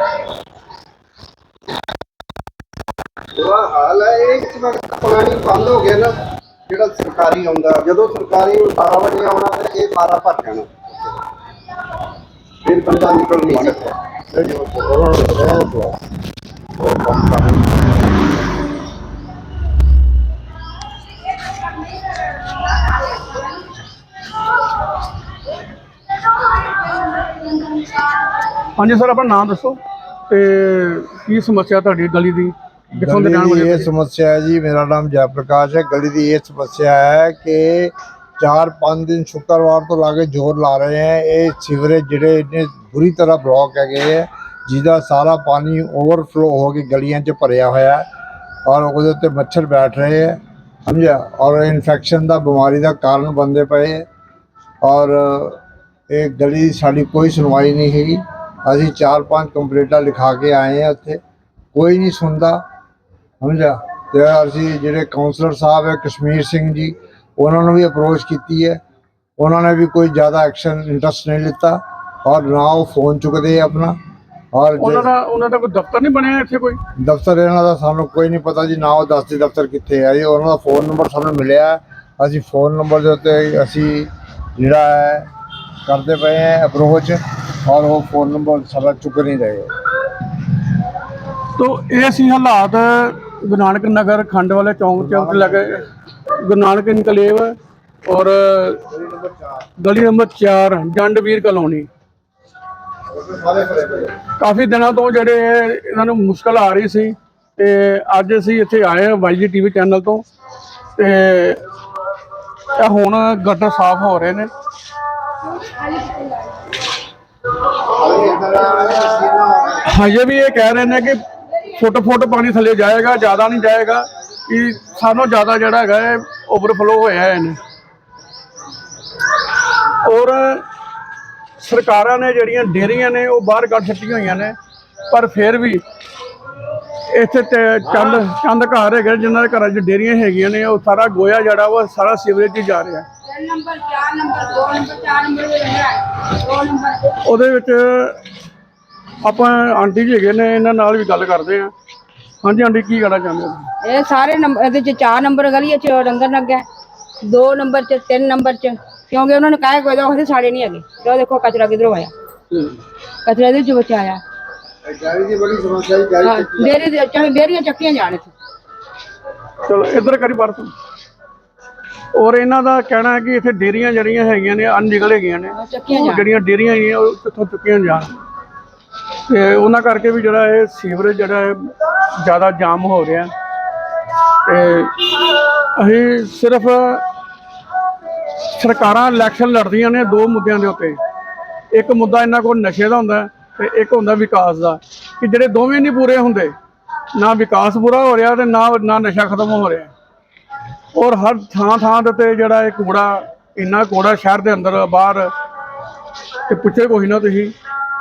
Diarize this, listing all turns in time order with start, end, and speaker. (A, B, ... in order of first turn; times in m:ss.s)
0:03.4-0:06.2 A
0:06.7-0:10.8 A
0:12.6-0:15.0 A
0:14.4-0:15.9 B
0:17.0-0:17.4 B
0:28.7-0:33.9 C
0:33.0-0:48.0 B
0:48.6-0:54.0 B
0:54.8-1:01.2 B
1:01.7-1:02.6 B
1:03.4-1:08.8 B
1:09.4-1:14.0 B
1:14.5-1:15.1 B
1:14.8-1:16.8 C
1:17.0-1:25.3 B
1:25.8-1:29.7 B
1:31.6-1:35.8 C
1:35.0-1:35.8 B
1:36.4-1:38.8 C
1:38.9-1:39.5 B
1:39.8-1:41.9 C
1:43.1-1:44.2 B
1:44.4-1:50.2 C
1:51.0-1:51.6 C
1:52.7-1:54.5 C
1:55.6-1:56.5 D
1:57.8-1:59.8 B
1:59.8-2:07.6 C
2:10.0-2:10.6 C
2:11.6-2:14.6 C
2:15.1-2:15.8 C
2:17.0-2:23.1 C
2:23.2-2:27.2 D
2:27.2-2:28.2 C
2:29.2-2:31.7 C
2:32.4-2:33.7 C
2:33.8-2:36.6 D
2:37.2-2:42.1 D
2:42.5-2:42.8 C
2:43.2-2:44.2 D
2:44.8-2:46.9 B
2:46.2-2:48.3 D
2:49.6-2:50.7 C
2:52.1-2:58.1 C
2:55.5-2:56.2 D
2:59.3-3:03.3 C
3:04.4-3:05.0 C
3:05.6-3:07.0 C
3:08.4-3:11.0 C
3:11.7-3:16.6 C
3:17.1-3:19.9 C
3:20.9-3:25.3 C
3:26.5-3:27.5 C